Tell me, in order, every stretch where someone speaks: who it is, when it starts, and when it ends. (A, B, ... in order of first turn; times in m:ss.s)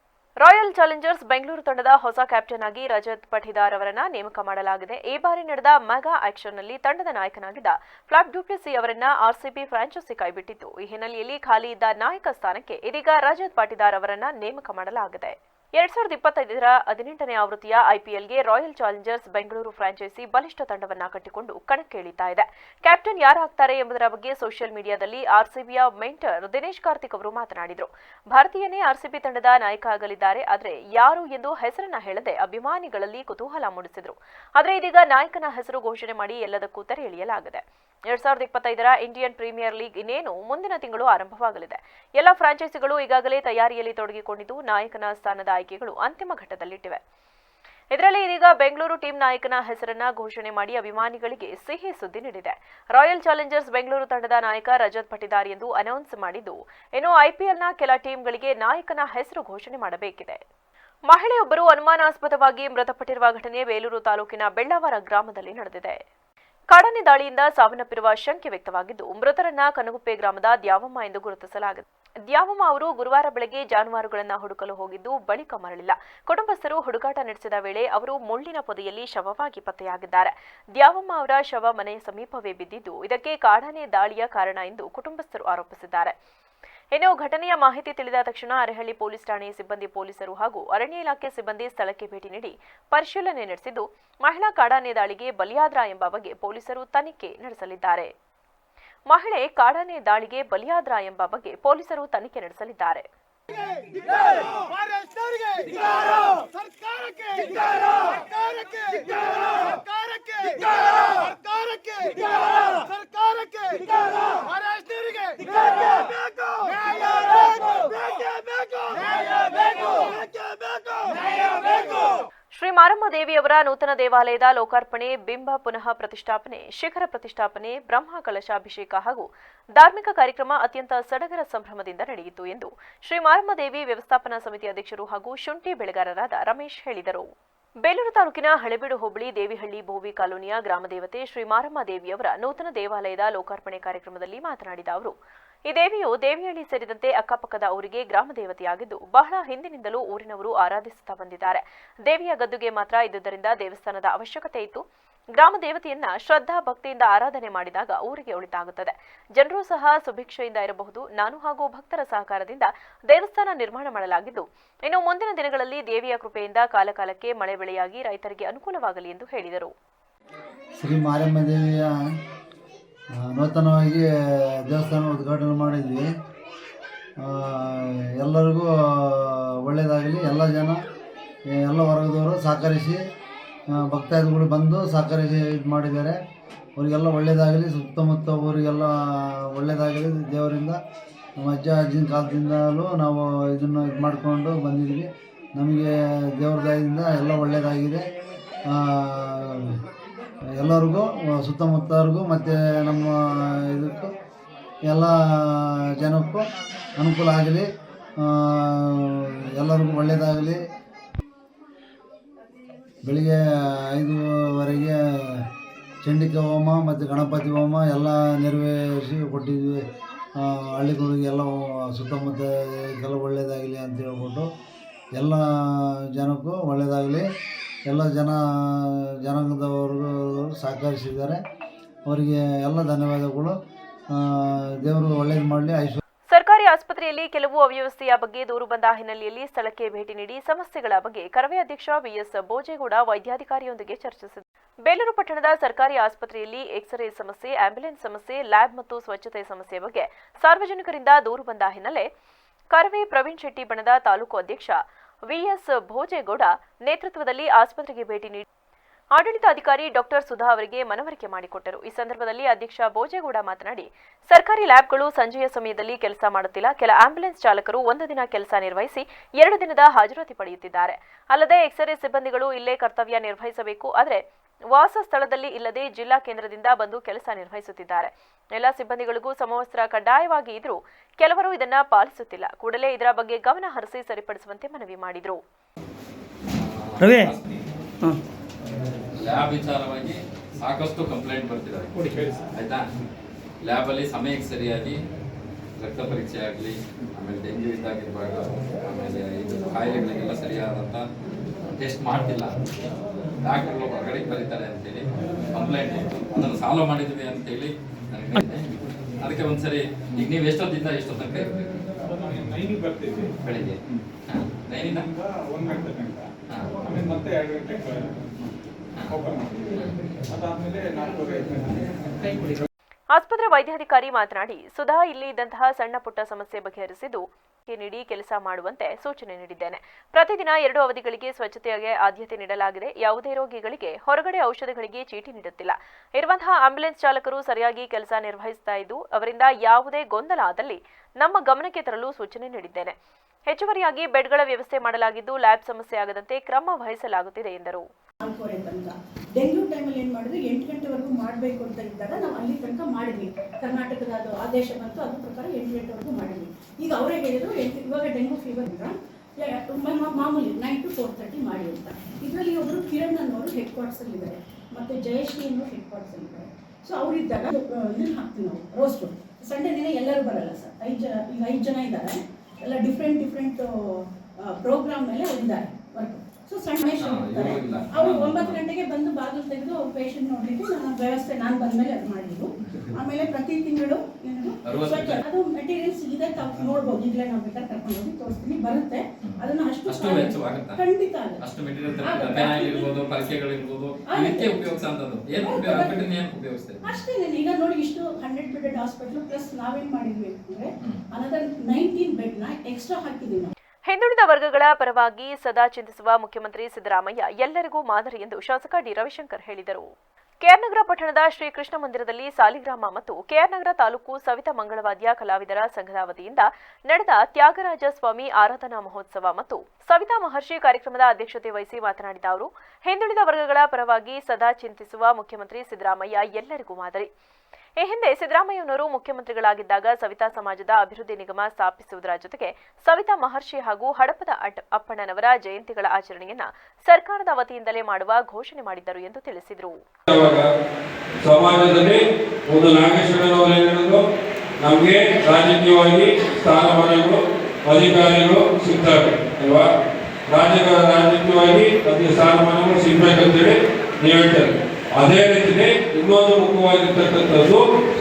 0:00.4-0:47.0 A
0:47.9-1:00.4 A
1:01.1-1:06.0 A
1:06.7-1:26.1 A
1:26.9-1:38.1 A
1:39.1-1:43.0 A
2:02.5-2:17.3 A
2:17.8-2:25.1 A
2:25.7-2:34.8 A
2:35.3-2:49.7 A
2:50.8-2:51.8 B
2:53.2-2:54.0 B
2:54.6-2:56.0 B
2:57.2-3:00.8 B
3:01.5-3:03.0 B
3:03.8-3:06.1 B
3:06.8-3:08.9 B
3:09.6-3:10.8 B
3:11.4-3:18.0 B
3:18.7-3:19.6 B
3:20.6-3:23.1 B
3:23.7-3:24.1 B
3:24.9-3:26.4 B
3:27.0-3:27.6 B
3:28.2-3:30.6 B
3:33.0-3:33.4 B
3:33.9-3:35.0 B
3:36.0-3:39.8 B
3:40.4-3:44.5 B
3:45.2-3:47.2 B
3:47.9-3:48.4 B
3:49.2-3:51.4 B
3:52.1-3:53.5 B
3:54.2-3:56.0 B
3:56.3-4:12.1 A
4:12.7-4:14.7 A
4:15.3-4:18.4 A
4:19.1-4:34.2 A
4:34.7-4:45.4 A
4:46.5-4:47.6 C
4:49.2-4:52.8 C
4:52.1-4:52.4 D
4:53.6-4:55.0 C
4:55.8-5:01.0 C
5:01.7-5:02.6 C
5:03.4-5:11.8 C
5:12.3-5:13.3 D
5:13.3-5:15.1 C
5:15.5-5:16.2 D
5:16.5-5:16.8 C
5:16.9-5:18.0 D
5:19.2-5:19.6 D
5:20.4-5:21.8 D
5:23.1-5:42.9 A
5:43.5-5:47.8 A
5:48.2-6:31.4 D
6:17.0-6:18.6 C
6:22.7-6:23.2 C
6:24.6-6:25.3 C
6:29.2-6:37.0 C
6:32.0-6:32.9 D
6:34.1-6:34.8 D
6:35.4-6:36.1 D
6:36.8-6:43.5 D
6:43.9-6:49.9 A
6:50.4-7:07.1 A
7:07.8-7:19.7 A
7:20.1-7:20.5 E
7:21.2-7:24.0 E
7:24.6-7:29.7 E
7:30.3-7:37.6 E